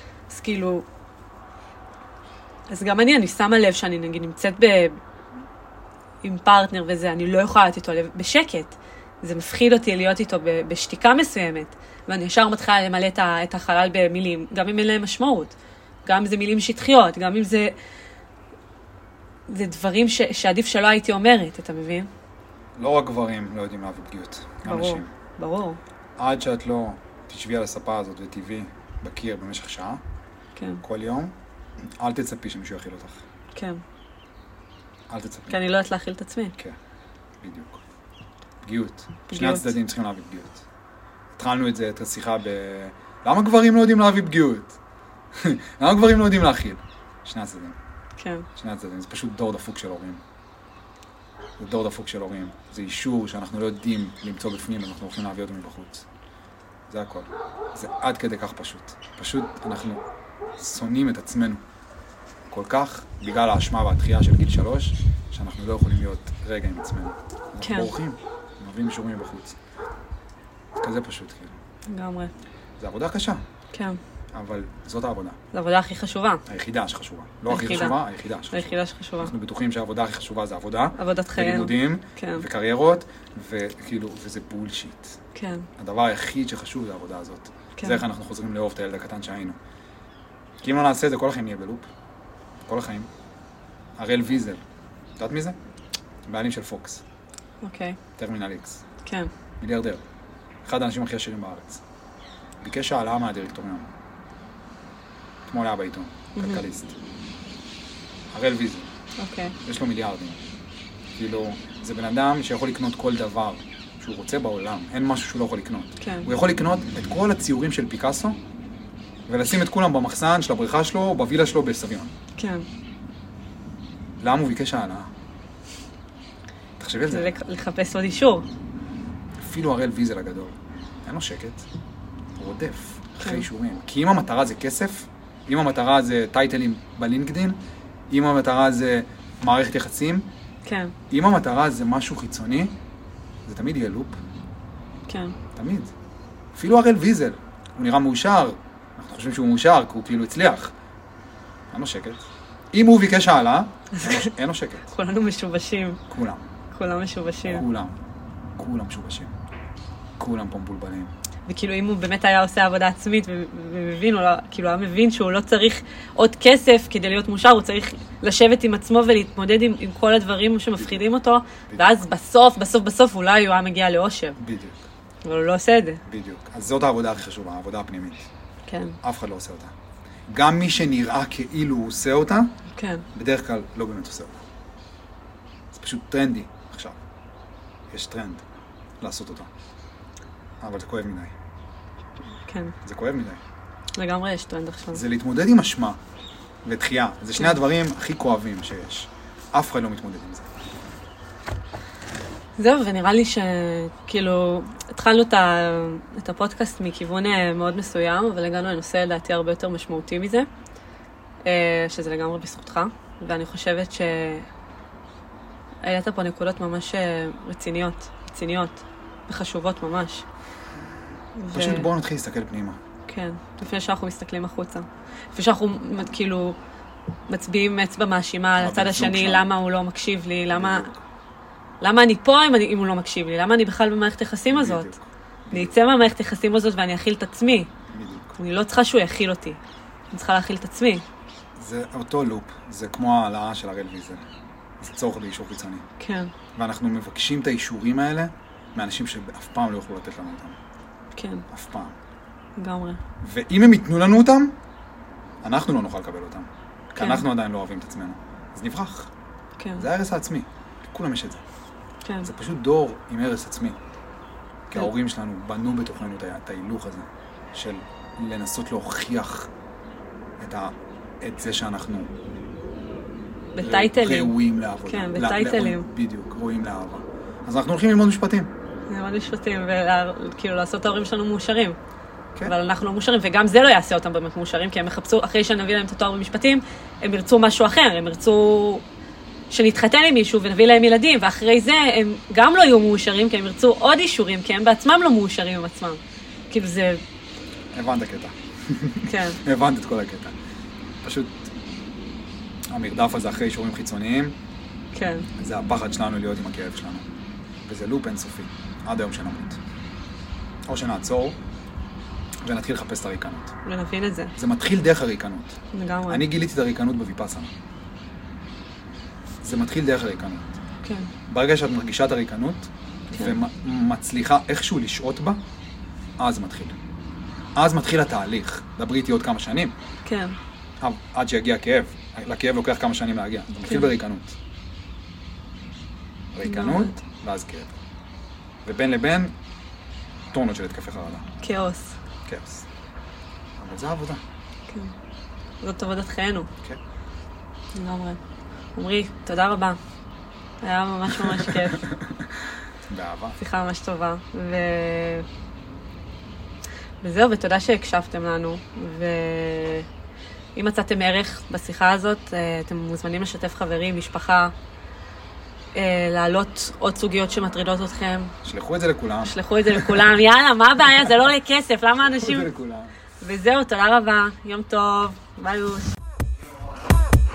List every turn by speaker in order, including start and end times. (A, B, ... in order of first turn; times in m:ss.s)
0:00.3-0:00.8 A
0:02.7-0:05.0 A
0:06.2-0:15.5 A
0:16.0-0:17.7 A
0:19.5-0:22.1 A
0:22.8-0:25.1 B
0:24.6-0:25.8 A
0:26.2-0:30.0 B
0:30.6-0:30.8 A
0:30.8-0:31.3 B
0:32.0-0:33.2 B
0:33.5-0:33.8 A
0:35.1-0:35.6 B
0:35.5-0:36.6 A
0:37.4-0:37.8 B
0:38.6-0:40.6 B
0:39.3-0:39.7 A
0:41.3-0:44.8 B
0:45.3-0:47.8 B
0:48.2-0:48.4 A
0:48.6-0:50.2 B
0:51.6-0:56.1 B
0:56.9-1:00.0 B
1:00.6-1:01.6 B
1:02.5-1:09.6 B
1:07.6-1:07.9 A
1:10.8-1:11.6 B
1:11.9-1:12.3 A
1:12.8-1:13.4 B
1:13.7-1:14.0 A
1:14.3-1:15.4 B
1:15.5-1:16.4 A
1:16.4-1:25.2 B
1:17.5-1:18.0 A
1:18.5-1:19.3 A
1:21.0-1:22.4 A
1:25.3-1:25.7 A
1:25.8-1:29.6 B
1:27.8-1:28.0 A
1:30.6-1:31.9 B
1:32.6-1:33.1 B
1:34.0-1:34.6 B
1:35.2-1:35.6 B
1:36.2-1:37.0 B
1:37.6-1:38.0 A
1:38.2-1:38.8 B
1:39.0-1:39.3 A
1:39.6-1:40.0 B
1:40.6-1:41.8 B
1:42.6-1:43.9 B
1:45.4-1:47.0 B
1:46.3-1:46.6 A
1:48.3-1:48.9 B
1:49.2-1:49.6 A
1:49.6-1:50.4 B
1:51.2-1:58.4 B
1:56.0-1:56.3 A
1:59.3-2:02.1 B
2:02.4-2:02.6 A
2:04.2-2:05.1 B
2:06.8-2:07.4 B
2:07.0-2:08.5 A
2:09.4-2:11.7 B
2:12.4-2:17.6 B
2:13.2-2:13.5 A
2:18.1-2:20.3 B
2:20.6-2:20.9 A
2:21.1-2:22.8 B
2:23.4-2:24.2 B
2:25.1-2:25.4 A
2:25.5-2:25.9 B
2:26.5-2:30.7 B
2:31.7-2:34.9 B
2:34.9-2:36.0 A
2:36.1-2:36.5 B
2:36.7-2:37.6 A
2:37.4-2:38.0 B
2:38.6-2:39.3 B
2:40.2-2:41.1 B
2:41.5-2:54.4 A
2:54.4-2:54.8 B
2:55.2-2:56.0 A
2:56.1-2:58.3 B
2:58.7-2:59.0 A
2:59.0-2:59.7 B
3:00.3-3:02.6 B
3:02.7-3:03.0 A
3:03.1-3:04.4 B
3:05.7-3:07.0 B
3:07.9-3:08.4 B
3:09.0-3:09.5 B
3:10.6-3:11.3 B
3:12.5-3:12.7 A
3:12.8-3:13.4 B
3:13.9-3:15.0 A
3:14.9-3:16.0 B
3:16.6-3:20.6 B
3:22.6-3:30.5 A
3:31.4-3:34.5 A
3:35.8-3:40.2 A
3:41.4-3:41.9 A
3:41.5-3:42.8 B
3:43.1-3:46.6 A
3:47.3-3:50.9 A
3:48.6-3:49.5 B
3:50.5-3:51.0 B
3:51.8-3:54.9 A
3:54.5-3:55.8 B
3:55.5-3:57.7 A
3:57.9-3:58.4 B
3:58.4-3:59.6 A
4:00.1-4:01.0 A
4:01.6-4:04.2 B
4:04.8-4:05.9 B
4:06.0-4:06.3 A
4:06.5-4:10.6 B
4:11.1-4:11.4 A
4:11.5-4:12.0 B
4:12.6-4:13.0 A
4:13.2-4:14.6 B
4:15.4-4:19.1 B
4:17.0-4:17.2 A
4:19.6-4:19.8 A
4:19.8-4:21.4 B
4:22.0-4:22.3 A
4:22.2-4:23.8 B
4:24.7-4:29.5 B
4:30.4-4:32.1 B
4:33.5-4:35.9 A
4:33.6-4:38.5 B
4:38.9-4:41.8 A
4:42.4-4:48.8 A
4:49.5-4:57.0 A
4:57.7-5:00.3 B
4:59.0-4:59.4 A
5:01.0-5:01.5 B
5:02.7-5:04.4 B
5:04.9-5:05.3 A
5:05.4-5:07.0 B
5:07.6-5:09.6 B
5:10.7-5:11.4 B
5:12.4-5:13.6 B
5:13.6-5:14.3 A
5:14.4-5:17.5 B
5:15.7-5:16.2 A
5:19.4-5:20.6 B
5:20.8-5:21.1 A
5:21.3-5:25.4 B
5:23.1-5:23.4 A
5:26.2-5:26.8 B
5:27.6-5:29.7 B
5:30.0-5:30.4 A
5:30.8-5:34.4 B
5:33.6-5:33.9 A
5:36.3-5:37.7 B
5:36.4-5:37.0 A
5:38.6-5:39.3 B
5:40.3-5:41.2 B
5:41.4-5:42.0 A
5:42.2-5:42.7 B
5:43.6-5:44.2 B
5:45.6-5:46.5 A
5:47.7-5:48.2 A
5:48.7-5:49.8 A
5:50.6-5:51.9 A
5:51.1-5:52.3 B
5:52.9-5:53.4 B
5:53.4-5:55.2 A
5:57.0-5:59.9 A
6:00.5-6:04.5 A
6:05.7-6:08.3 A
6:08.4-6:10.1 B
6:09.2-6:12.5 A
6:12.0-6:12.9 B
6:13.2-6:15.9 A